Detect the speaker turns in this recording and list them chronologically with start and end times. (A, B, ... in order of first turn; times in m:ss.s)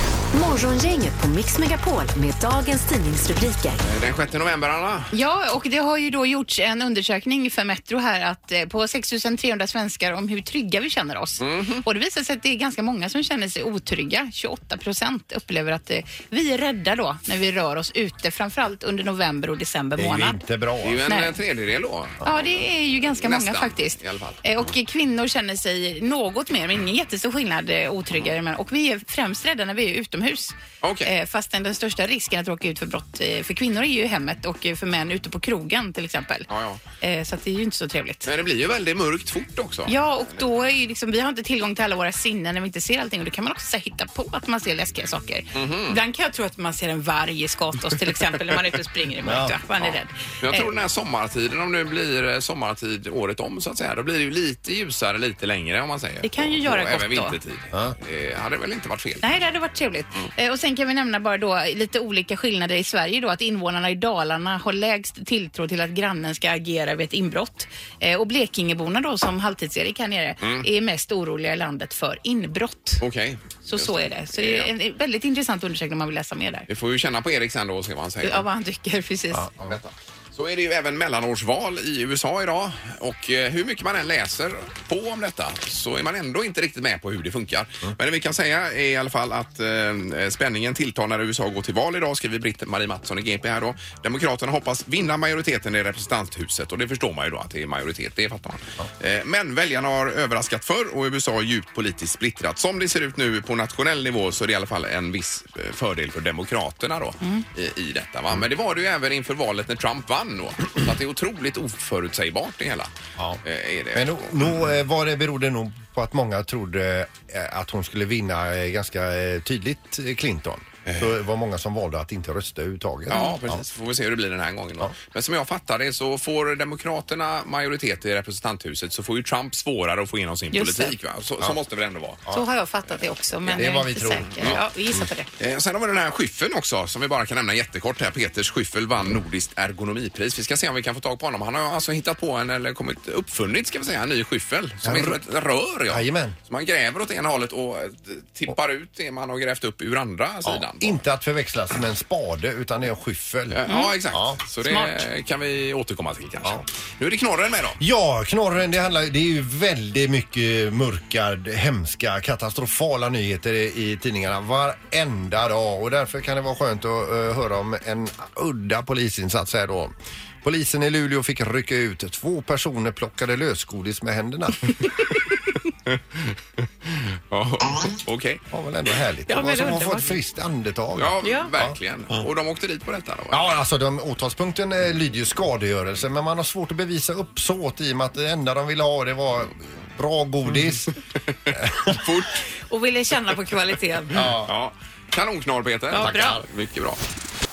0:00.3-0:03.8 A
0:03.8-0:05.1 B
0:05.1-0:20.4 C
0:11.4-0:11.8 B
0:20.0-0:21.0 D
0:20.8-0:22.2 B
0:21.1-0:21.4 C
0:22.2-0:30.5 C
0:23.2-0:24.4 B
0:30.8-0:31.1 B
0:31.0-0:36.5 C
0:36.5-0:36.8 B
0:37.0-0:38.3 C
0:38.2-0:39.9 B
0:39.9-0:50.7 C
0:45.5-0:46.0 B
0:49.2-0:49.6 D
0:49.8-0:59.3 B
0:56.2-0:57.4 C
0:59.2-1:13.0 C
1:13.0-1:14.7 B
1:13.6-1:16.7 C
1:16.7-1:18.5 B
1:18.2-1:19.5 C
1:19.3-1:19.7 D
1:19.6-1:52.9 B
1:53.4-1:54.2 B
1:53.9-2:03.6 D
2:03.1-2:12.2 B
2:03.1-2:03.4 C
2:10.5-2:10.9 C
2:12.3-2:15.3 C
2:13.5-2:15.1 D
2:15.4-2:31.0 B
2:24.8-2:25.2 D
2:25.9-2:26.4 D
2:30.4-2:34.4 D
2:33.5-2:37.8 B
2:33.7-2:34.0 C
2:34.6-2:35.0 C
2:37.8-2:54.7 D
2:56.9-2:58.4 B
2:58.5-3:01.8 D
2:59.3-3:00.2 C
3:01.0-3:03.6 B
3:01.2-3:01.5 C
3:03.3-3:11.0 D
3:11.4-3:12.5 B
3:11.5-3:12.0 D
3:12.7-3:14.3 C
3:14.2-3:14.5 D
3:14.2-3:17.0 B
3:15.9-3:16.4 C
3:16.0-3:16.4 D